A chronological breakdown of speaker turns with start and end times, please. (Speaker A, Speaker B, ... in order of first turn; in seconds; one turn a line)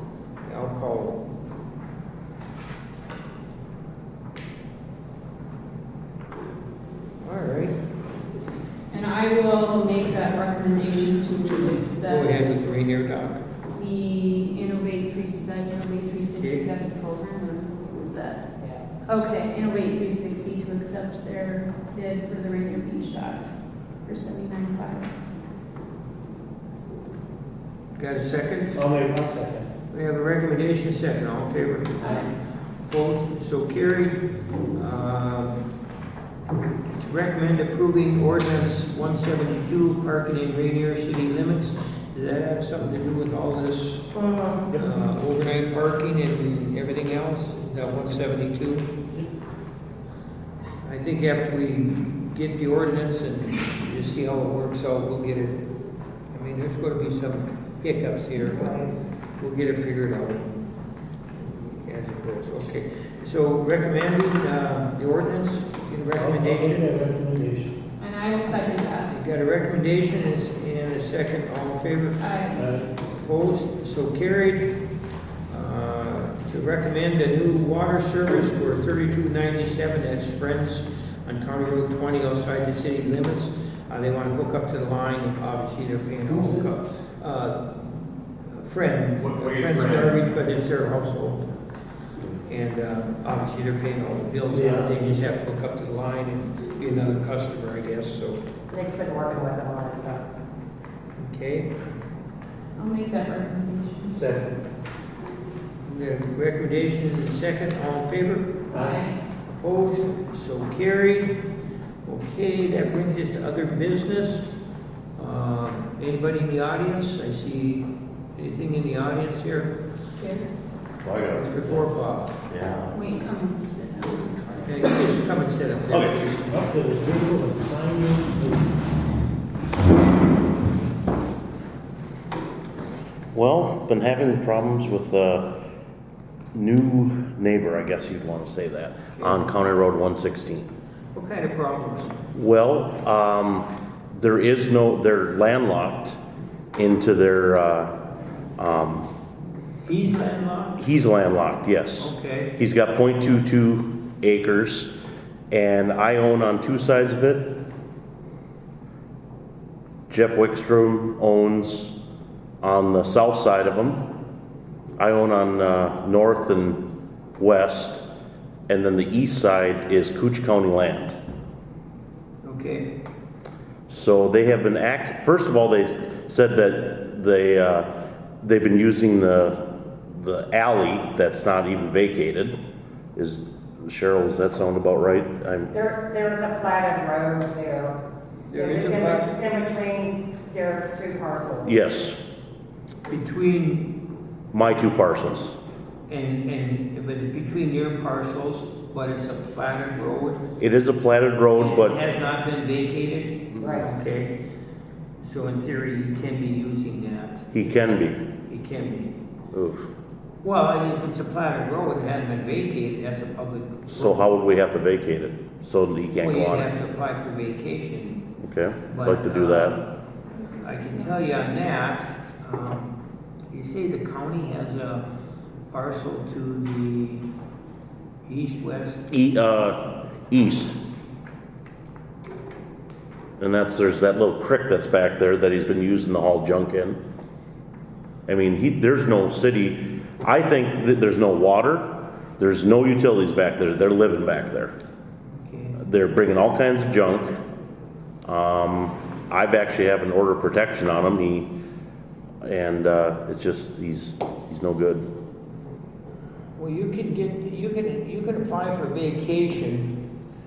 Speaker A: 0.5-1.2
Speaker A: 7.2-7.8
Speaker B: 8.9-12.5
Speaker A: 12.1-13.4
Speaker B: 13.8-18.4
Speaker A: 16.4-16.7
Speaker C: 18.6-18.9
Speaker B: 19.1-23.4
Speaker B: 24.1-25.1
Speaker A: 27.9-28.8
Speaker D: 28.7-29.7
Speaker A: 29.9-32.3
Speaker B: 32.0-32.3
Speaker A: 32.8-35.6
Speaker A: 37.0-49.0
Speaker A: 50.8-55.7
Speaker A: 56.3-58.9
Speaker C: 58.4-58.9
Speaker A: 59.4-60.6
Speaker A: 61.4-66.9
Speaker D: 66.1-67.8
Speaker B: 68.0-69.1
Speaker A: 68.5-72.2
Speaker B: 72.2-72.6
Speaker D: 72.5-72.9
Speaker A: 73.0-74.8
Speaker A: 75.5-91.5
Speaker D: 86.3-86.8
Speaker E: 89.4-90.1
Speaker A: 92.4-98.4
Speaker D: 94.5-95.3
Speaker C: 98.7-100.2
Speaker A: 101.2-101.9
Speaker B: 102.8-104.2
Speaker D: 104.1-104.6
Speaker A: 105.8-108.7
Speaker D: 108.7-109.0
Speaker B: 108.7-109.2
Speaker A: 109.5-111.4
Speaker A: 112.0-114.5
Speaker A: 115.2-119.8
Speaker B: 120.2-120.5
Speaker E: 121.0-123.0
Speaker A: 121.3-122.3
Speaker B: 122.9-125.1
Speaker A: 124.7-126.6
Speaker D: 126.5-128.7
Speaker E: 133.3-135.6
Speaker E: 136.5-140.7
Speaker A: 139.2-139.4
Speaker A: 141.1-142.2
Speaker E: 142.3-146.2
Speaker E: 146.8-148.0
Speaker E: 148.6-149.1
Speaker A: 149.9-150.8
Speaker E: 150.8-155.0
Speaker A: 152.0-152.5
Speaker E: 155.5-157.6
Speaker E: 160.1-162.0
Speaker E: 162.6-164.1
Speaker E: 165.0-168.1
Speaker E: 168.7-171.2
Speaker A: 172.4-172.9
Speaker E: 173.9-182.6
Speaker E: 183.2-185.7
Speaker C: 185.7-188.0
Speaker A: 188.5-189.4
Speaker C: 188.5-191.8
Speaker E: 191.7-192.2
Speaker A: 193.1-194.0
Speaker E: 194.5-195.6
Speaker A: 196.1-200.5
Speaker E: 200.6-202.0
Speaker A: 201.5-204.3
Speaker C: 203.6-203.9
Speaker A: 205.2-207.6
Speaker E: 207.5-208.3
Speaker A: 208.4-209.2
Speaker E: 209.5-209.9
Speaker A: 210.4-214.3
Speaker E: 213.9-216.7
Speaker A: 216.2-218.3
Speaker E: 218.4-219.8
Speaker A: 218.9-219.9
Speaker A: 220.6-222.9
Speaker A: 223.5-225.1
Speaker A: 225.7-227.3
Speaker A: 228.2-229.1
Speaker E: 229.1-230.8
Speaker E: 233.4-237.0
Speaker E: 238.3-244.7
Speaker A: 245.4-245.8
Speaker E: 245.8-247.4
Speaker E: 248.2-251.5
Speaker E: 252.4-255.1
Speaker A: 256.6-260.0